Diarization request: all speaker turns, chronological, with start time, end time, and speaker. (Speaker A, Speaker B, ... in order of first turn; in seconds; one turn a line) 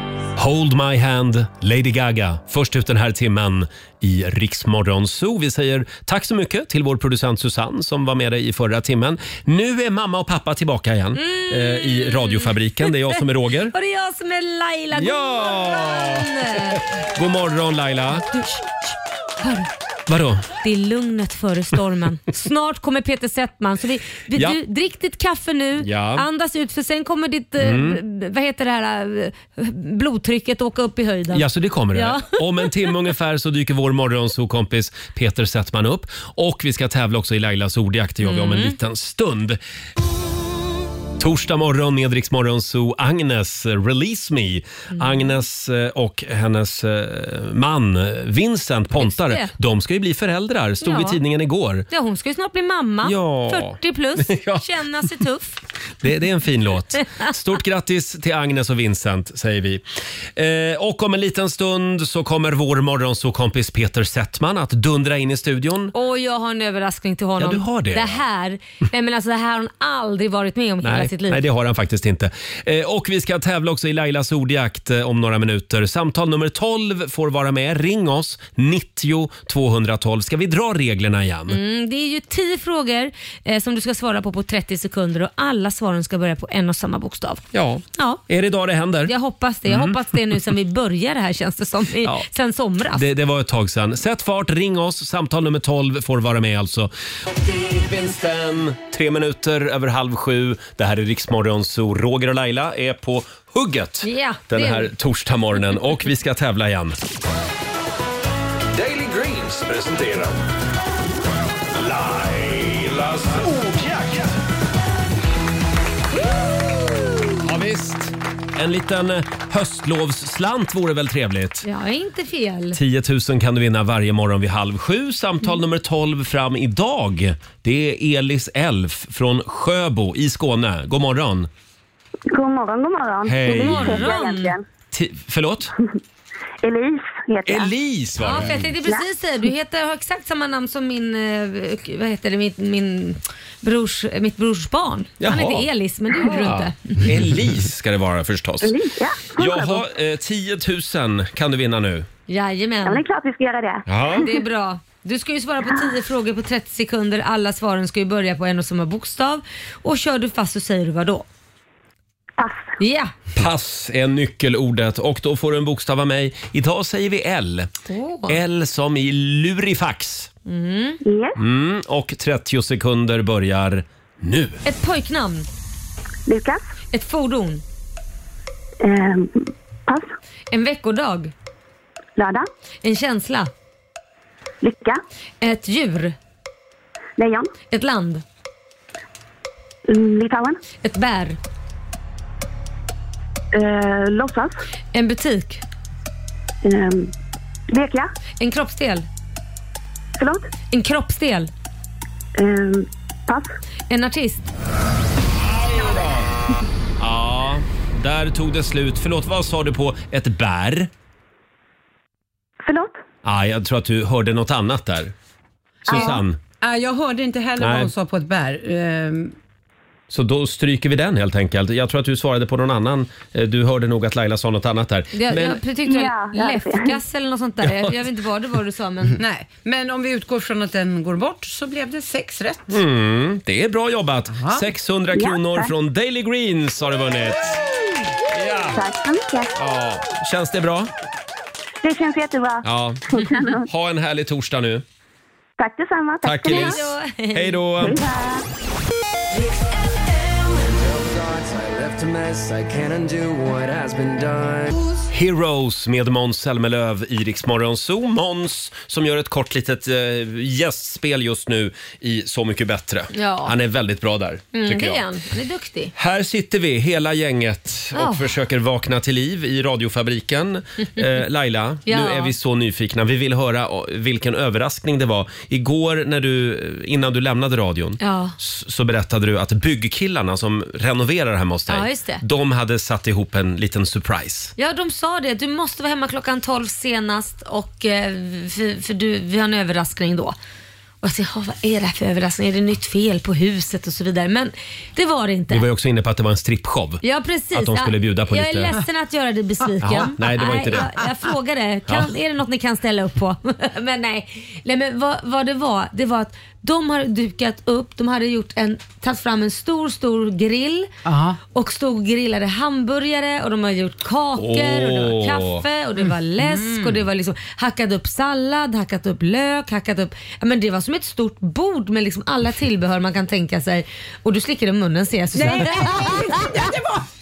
Speaker A: 0.4-13.7
Speaker B: 11.2-13.2
Speaker B: 13.7-16.8
Speaker A: 15.0-18.3
Speaker B: 19.4-19.7
Speaker A: 20.1-20.5
Speaker B: 20.6-32.7
Speaker A: 24.3-24.6
Speaker A: 25.8-26.3
Speaker A: 27.6-28.0
Speaker A: 31.3-39.6
Speaker B: 38.2-38.8
Speaker A: 41.2-51.9
Speaker B: 44.9-45.3
Speaker B: 49.0-49.5
Speaker B: 50.8-51.2
Speaker B: 51.9-55.6
Speaker A: 53.0-55.1
Speaker A: 56.0-59.8
Speaker A: 60.4-65.9
Speaker B: 65.9-71.4
Speaker A: 67.4-68.2
Speaker A: 70.8-81.6
Speaker B: 81.5-87.4
Speaker A: 87.5-89.1
Speaker B: 88.0-88.2
Speaker B: 89.1-93.1
Speaker A: 89.7-90.2
Speaker A: 92.9-107.0
Speaker B: 104.0-104.9
Speaker C: 108.8-110.3
Speaker C: 111.9-114.2
Speaker A: 117.4-121.7
Speaker B: 121.6-122.8
Speaker A: 122.7-131.5
Speaker D: 132.3-134.6
Speaker A: 133.2-134.2
Speaker B: 133.5-134.6
Speaker A: 134.9-135.7
Speaker D: 136.6-137.7
Speaker A: 137.5-138.7
Speaker B: 138.2-147.1
Speaker A: 145.2-145.7
Speaker A: 146.2-148.8
Speaker D: 148.6-149.8
Speaker A: 149.4-152.1
Speaker B: 152.3-153.0
Speaker D: 152.8-153.8
Speaker A: 153.9-154.3
Speaker B: 154.2-161.2
Speaker D: 162.4-162.7
Speaker B: 162.8-163.1
Speaker A: 163.3-167.7
Speaker B: 167.9-168.4
Speaker A: 168.3-170.3
Speaker B: 170.5-171.0
Speaker D: 171.0-171.4
Speaker A: 171.4-174.6
Speaker B: 174.7-175.5
Speaker D: 176.3-176.6
Speaker B: 176.9-177.6
Speaker D: 178.8-179.4
Speaker B: 180.5-181.3
Speaker D: 182.2-182.4
Speaker B: 182.8-183.5
Speaker D: 184.6-185.0
Speaker B: 185.4-186.2
Speaker D: 187.2-187.5
Speaker B: 187.7-188.2
Speaker D: 189.9-190.6
Speaker B: 190.8-191.4
Speaker D: 193.5-194.5
Speaker B: 194.9-195.6
Speaker D: 196.6-197.1
Speaker D: 197.7-198.1
Speaker B: 198.4-199.1
Speaker D: 200.2-200.4
Speaker B: 200.7-201.5
Speaker D: 202.4-203.5
Speaker B: 203.9-204.5
Speaker A: 205.4-206.3
Speaker A: 207.0-210.9
Speaker D: 212.7-212.9
Speaker A: 213.2-215.1
Speaker A: 215.9-216.4
Speaker E: 216.6-219.3
Speaker A: 217.6-217.9
Speaker A: 220.1-225.6
Speaker B: 225.1-229.2
Speaker D: 225.9-227.0
Speaker A: 227.6-227.9
Speaker E: 229.2-232.8
Speaker A: 232.7-237.6
Speaker E: 234.3-234.7
Speaker D: 235.1-235.7
Speaker A: 238.3-238.8
Speaker D: 238.8-239.5
Speaker A: 239.6-240.9
Speaker D: 241.8-243.6
Speaker A: 242.6-244.8
Speaker D: 245.6-246.8
Speaker A: 246.2-248.0
Speaker B: 246.4-247.6
Speaker D: 247.8-248.4
Speaker C: 250.1-254.8
Speaker A: 255.1-265.0
Speaker B: 263.1-263.6
Speaker B: 264.5-265.9
Speaker A: 266.0-284.5
Speaker B: 267.9-268.3
Speaker B: 271.9-272.3
Speaker B: 278.0-278.4
Speaker B: 281.7-282.2
Speaker B: 284.6-290.4
Speaker B: 291.0-295.6
Speaker A: 295.5-298.8
Speaker B: 297.0-310.9
Speaker A: 299.8-301.0
Speaker E: 311.1-311.4
Speaker B: 311.5-326.6
Speaker A: 314.4-315.6
Speaker E: 316.0-317.0
Speaker E: 325.3-327.1